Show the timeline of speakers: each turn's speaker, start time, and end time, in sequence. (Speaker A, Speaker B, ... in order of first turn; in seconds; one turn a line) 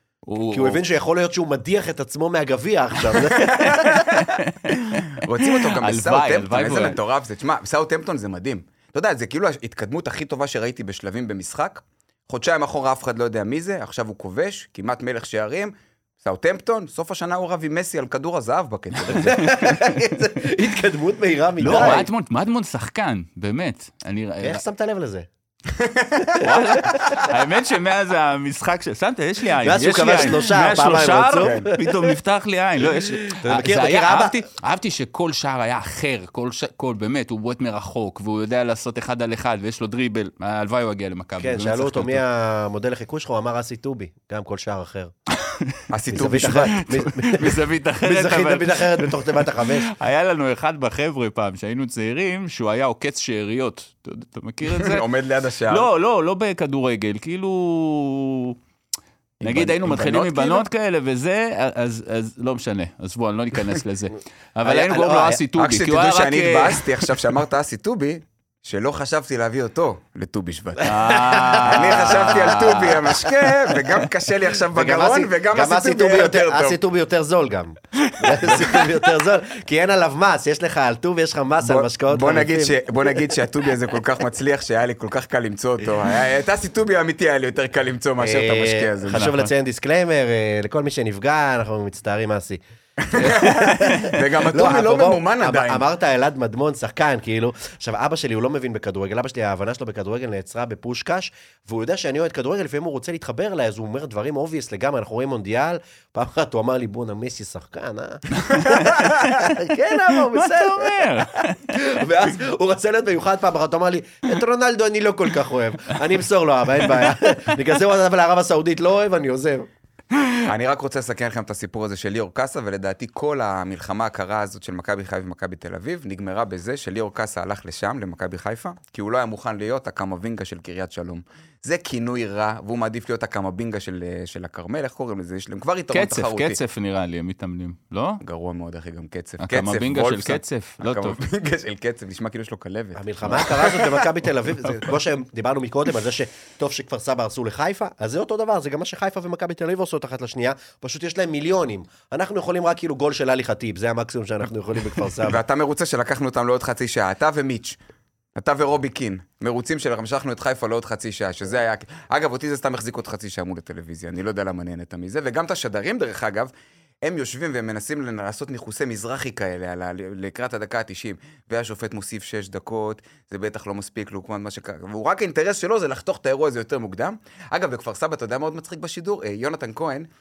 Speaker A: 0.2-0.8
Speaker B: 0.5-3.4
Speaker C: 3.4-4.3
Speaker A: 3.4-7.0
Speaker C: 5.2-19.4
Speaker A: 19.0-20.0
Speaker B: 19.1-22.1
Speaker A: 21.6-24.6
Speaker C: 21.6-22.1
Speaker B: 24.4-25.3
Speaker C: 25.7-26.4
Speaker B: 26.3-27.1
Speaker A: 26.4-42.2
Speaker B: 29.6-32.1
Speaker C: 31.4-31.7
Speaker B: 32.8-34.4
Speaker B: 41.4-45.1
Speaker A: 45.3-45.8
Speaker C: 45.9-46.8
Speaker B: 46.1-49.9
Speaker A: 46.8-55.0
Speaker C: 54.6-55.9
Speaker A: 55.7-58.5
Speaker C: 59.4-60.6
Speaker A: 59.4-67.1
Speaker B: 59.5-60.6
Speaker B: 64.6-65.4
Speaker C: 65.5-70.9
Speaker B: 70.8-72.7
Speaker A: 70.8-73.5
Speaker C: 71.6-76.8
Speaker B: 74.7-82.8
Speaker C: 81.6-89.4
Speaker B: 88.2-92.6
Speaker A: 89.1-89.4
Speaker C: 93.0-95.8
Speaker B: 93.1-119.7
Speaker C: 109.0-109.2
Speaker A: 110.3-111.6
Speaker A: 120.1-120.4
Speaker C: 120.5-136.6
Speaker A: 135.9-138.2
Speaker C: 138.2-144.0
Speaker A: 139.4-141.2
Speaker B: 142.9-155.4
Speaker C: 155.2-157.8
Speaker C: 158.3-166.5
Speaker C: 167.0-180.1